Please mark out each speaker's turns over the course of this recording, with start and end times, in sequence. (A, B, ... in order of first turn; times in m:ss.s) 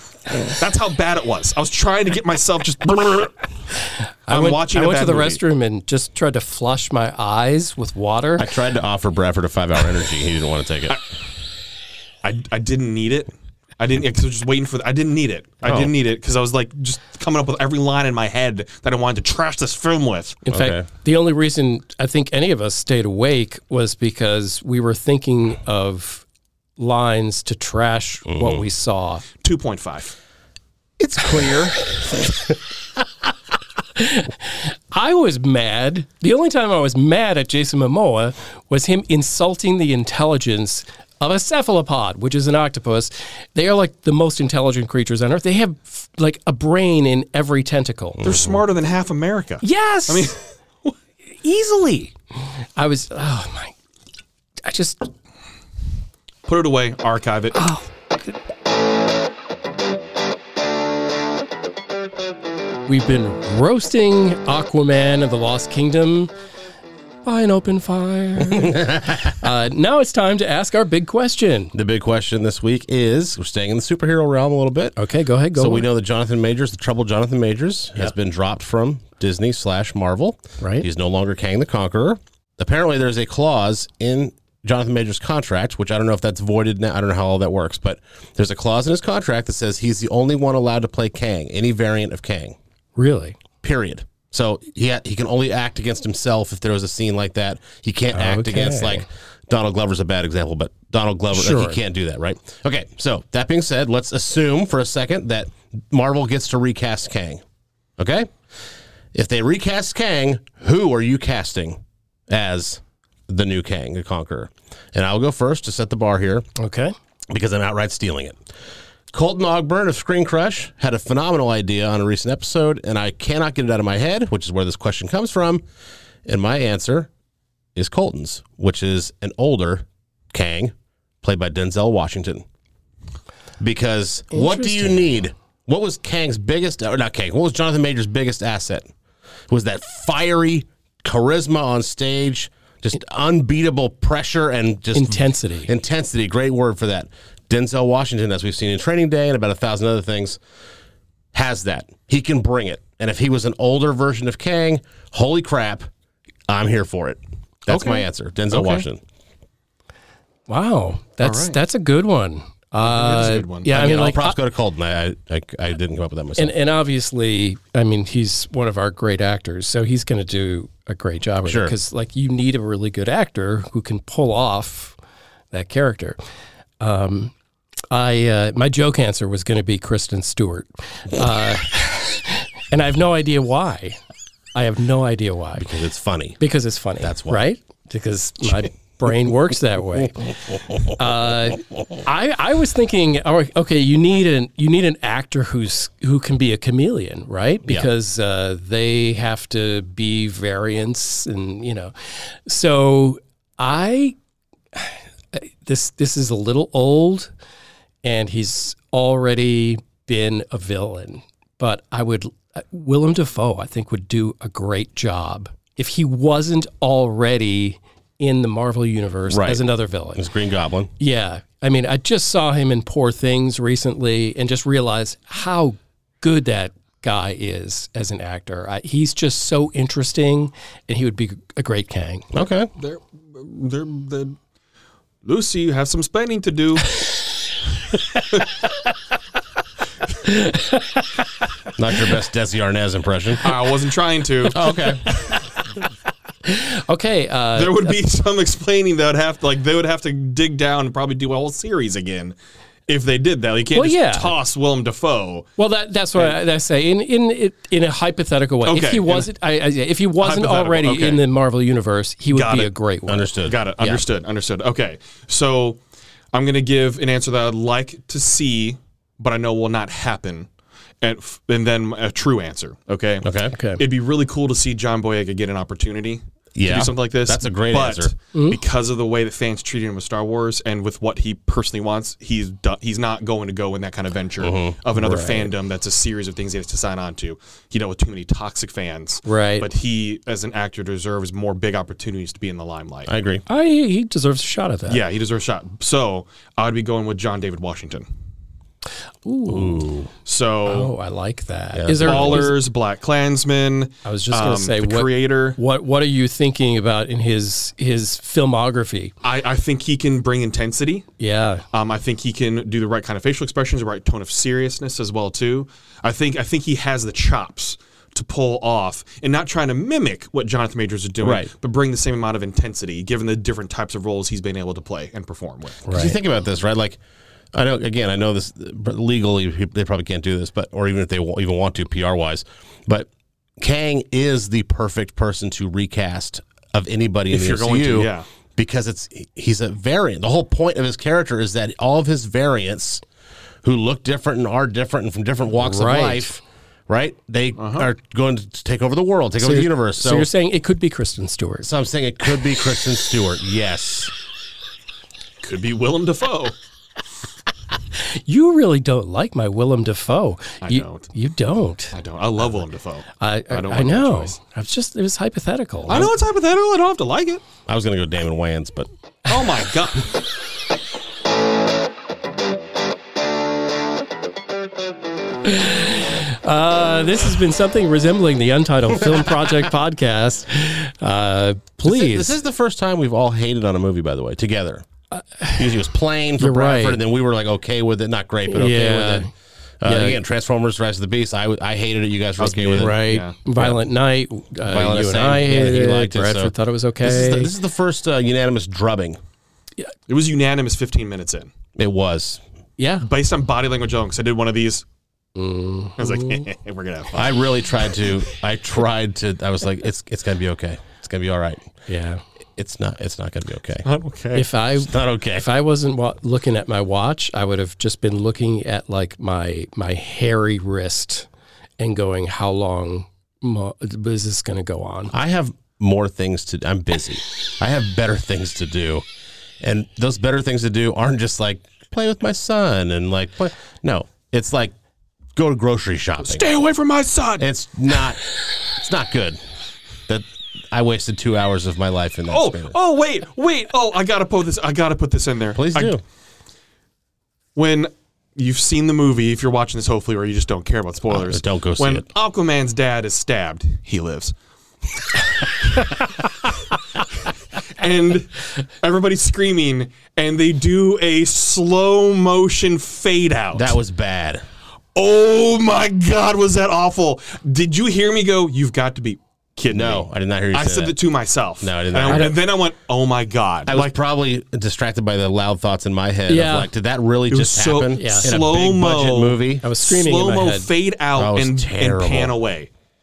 0:00.4-0:03.3 A
0:04.3-0:05.4 A
0:04.3-0:08.5 B
0:08.4-0:11.0 C
0:12.2-0:20.4 A
0:15.6-0:15.9 C
0:20.4-0:26.2 B
0:20.5-0:20.8 C
0:26.8-0:29.2 B
0:28.3-0:28.6 C
0:29.4-0:30.1 A
0:31.0-0:32.1 C
0:34.0-0:48.2 B
0:48.2-0:48.6 C
0:48.2-0:50.9 A
0:49.6-0:50.3 B
0:51.4-0:52.1 B
0:52.8-0:53.7 B
0:54.6-0:55.0 B
0:56.4-0:57.6 A
0:57.5-0:58.3 B
1:02.9-1:06.3 B
1:07.2-1:11.7 B
1:08.6-1:09.2 C
1:11.7-1:15.0 C
1:15.0-1:15.9 B
1:15.5-1:32.6 C
1:20.6-1:20.9 B
1:33.0-1:33.4 B
1:33.6-1:47.4 C
1:38.1-1:39.0 B
1:41.3-1:41.8 B
1:48.0-1:48.3 C
1:49.1-1:56.5 C
1:56.6-1:56.9 B
1:57.3-1:58.4 C
1:59.1-2:05.6 C
2:06.2-2:07.1 C
2:07.7-2:12.4 C
2:13.6-2:18.9 C
2:14.3-2:15.0 B
2:19.5-2:30.4 C
2:24.9-2:25.7 B
2:31.3-2:35.9 C
2:36.5-2:39.0 C
2:37.7-2:38.8 A
2:40.5-2:44.4 B
2:41.2-2:41.6 A
2:42.8-2:43.7 A
2:43.7-2:46.5 C
2:46.4-2:54.9 B
2:51.4-2:51.7 C
2:55.5-2:56.2 B
2:56.8-2:57.3 B
2:57.9-3:04.0 B
3:04.5-3:05.7 B
3:05.6-3:06.4 C
3:06.4-3:10.3 B
3:07.0-3:07.4 C
3:10.9-3:24.2 B
3:24.7-3:27.3 B
3:28.0-3:40.2 B
3:39.3-3:40.9 C
3:41.0-3:52.3 B
3:52.3-3:52.7 C
3:52.8-3:54.4 A
3:55.2-3:56.9 A
4:00.2-4:01.1 B
4:01.8-4:03.5 C
4:03.4-4:04.7 A
4:04.5-4:05.0 C
4:06.4-4:07.9 B
4:07.6-4:12.4 A
4:12.9-4:15.5 A
4:13.7-4:14.3 B
4:15.6-4:23.3 B
4:18.6-4:19.3 A
4:20.2-4:21.2 A
4:22.3-4:22.7 A
4:23.1-4:24.0 C
4:23.5-4:25.8 A
4:26.3-4:30.5 A
4:31.0-4:53.1 A
4:33.2-4:33.5 C
4:33.5-4:33.8 B
4:36.5-4:38.1 C
4:38.3-4:38.6 B
4:44.4-4:44.8 C
4:45.0-4:45.5 B
4:49.2-4:49.7 B
4:53.1-4:53.4 C
4:53.5-4:55.0 B
4:54.9-4:58.0 A
4:59.2-4:59.8 B
4:59.4-5:00.1 C
5:00.2-5:00.9 A
5:00.7-5:02.6 B
5:01.7-5:02.4 C
5:02.0-5:05.6 A
5:04.0-5:09.1 B
5:09.2-5:11.1 A
5:11.2-5:11.6 B
5:11.7-5:25.9 A
5:21.2-5:21.5 C
5:25.9-5:26.1 B
5:25.9-5:27.0 C
5:27.5-5:43.0 C
5:37.3-5:38.2 A
5:43.6-5:46.4 C
5:45.5-5:46.4 B
5:46.9-5:50.3 C
5:47.6-5:47.9 A
5:49.4-5:51.7 B
5:51.6-5:54.1 C
5:55.4-5:56.5 A
5:58.0-6:01.9 B
6:00.6-6:01.1 A
6:01.9-6:04.4 A
6:03.2-6:06.1 B
6:05.9-6:07.4 A
6:07.7-6:08.9 C
6:09.3-6:10.2 A
6:15.4-6:22.3 B
6:21.8-6:24.9 C
6:25.1-6:25.6 B
6:25.5-6:29.3 C
6:26.4-6:27.0 B
6:28.5-6:29.3 B
6:29.8-6:33.0 C
6:29.8-6:30.2 B
6:32.4-6:33.4 A
6:32.8-6:37.5 B
6:34.7-6:39.2 C
6:40.1-6:41.5 A
6:41.8-6:42.4 C
6:42.8-6:43.1 B
6:43.0-6:44.8 A
6:45.3-6:46.5 B
6:46.0-6:47.4 A
6:47.1-6:51.8 C
6:51.9-6:52.2 B
6:52.6-6:53.8 C
6:53.8-6:54.5 A
6:54.3-7:01.3 B
6:54.8-6:55.5 C
7:01.8-7:05.1 B
7:05.1-7:09.0 C
7:09.6-7:14.7 C
7:15.3-7:16.5 C
7:16.2-7:17.4 A
7:17.4-7:18.2 C
7:18.7-7:19.4 C
7:20.1-7:22.7 C
7:22.3-7:25.9 A
7:25.5-7:26.0 C
7:27.5-7:34.3 A
7:31.1-7:32.0 C
7:37.8-7:43.8 A
7:43.5-7:44.4 C
7:44.9-7:53.9 A
7:49.7-7:51.0 C
7:51.6-7:52.4 C
7:53.7-7:59.6 C
7:56.3-7:56.7 B
7:57.3-8:02.7 A
7:57.9-7:58.4 B
7:59.6-8:00.7 B
8:01.1-8:02.4 C